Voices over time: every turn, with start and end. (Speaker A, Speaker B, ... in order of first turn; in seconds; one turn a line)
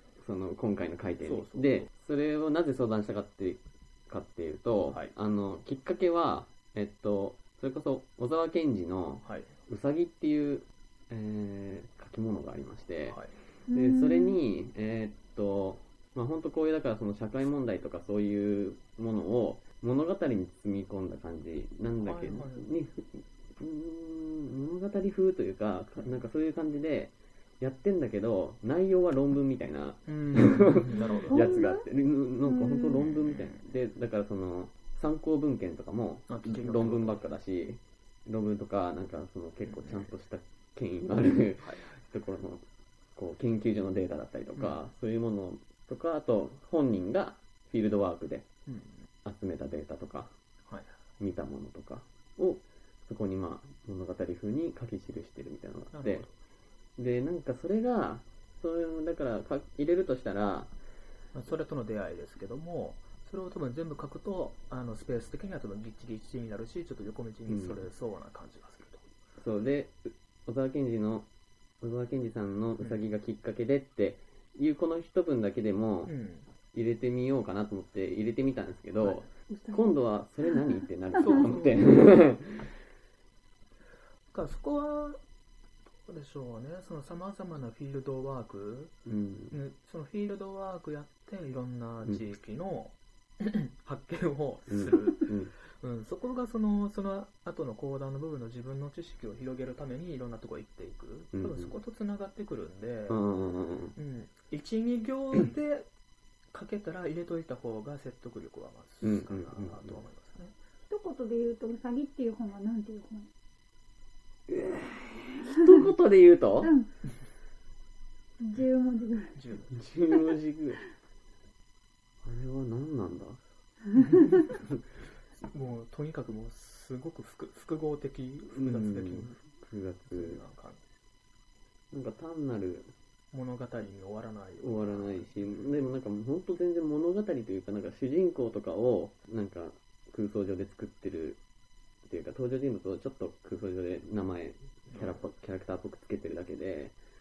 Speaker A: 0.2-42.6
Speaker B: 1.2-1.9
Speaker B: 4.9-5.1
Speaker B: 9.2-9.6
Speaker B: 13.1-13.3
Speaker C: 13.7-14.4
Speaker B: 22.0-22.7
Speaker B: 30.1-31.4
Speaker C: 31.2-31.9
Speaker C: 32.5-33.1
Speaker B: 33.0-33.6
Speaker B: 36.3-37.2
Speaker B: 39.6-40.1
Speaker B: 41.6-42.0
Speaker A: 43.2-48.5
Speaker B: 44.5-44.8
Speaker B: 48.7-49.1
Speaker A: 49.2-50.3
Speaker B: 50.7-50.9
Speaker A: 51.2-56.3
Speaker B: 55.9-56.3
Speaker A: 57.0-60.7
Speaker B: 61.3-69.0
Speaker A: 67.5-67.8
Speaker A: 69.4-71.3
Speaker A: 71.8-76.1
Speaker B: 72.8-73.1
Speaker B: 76.0-76.5
Speaker A: 76.7-82.7
Speaker B: 79.0-79.3
Speaker C: 79.5-81.5
Speaker B: 81.2-82.0
Speaker B: 84.3-85.2
Speaker B: 86.1-88.9
Speaker A: 89.1-89.6
Speaker B: 89.5-103.2
Speaker A: 94.7-95.5
Speaker A: 101.3-101.8
Speaker A: 103.1-104.0
Speaker B: 104.0-105.9
Speaker B: 106.5-110.5
Speaker A: 109.0-110.0
Speaker C: 110.9-113.3
Speaker A: 114.5-116.7
Speaker C: 116.6-116.9
Speaker C: 118.4-119.4
Speaker B: 119.3-119.8
Speaker A: 119.7-120.8
Speaker A: 122.2-123.4
Speaker B: 124.0-124.4
Speaker C: 124.0-124.5
Speaker B: 125.4-129.4
Speaker A: 128.5-130.4
Speaker B: 130.1-130.8
Speaker A: 131.9-132.9
Speaker B: 133.3-135.5
Speaker A: 134.6-141.4
Speaker A: 142.1-147.0
Speaker B: 144.9-145.3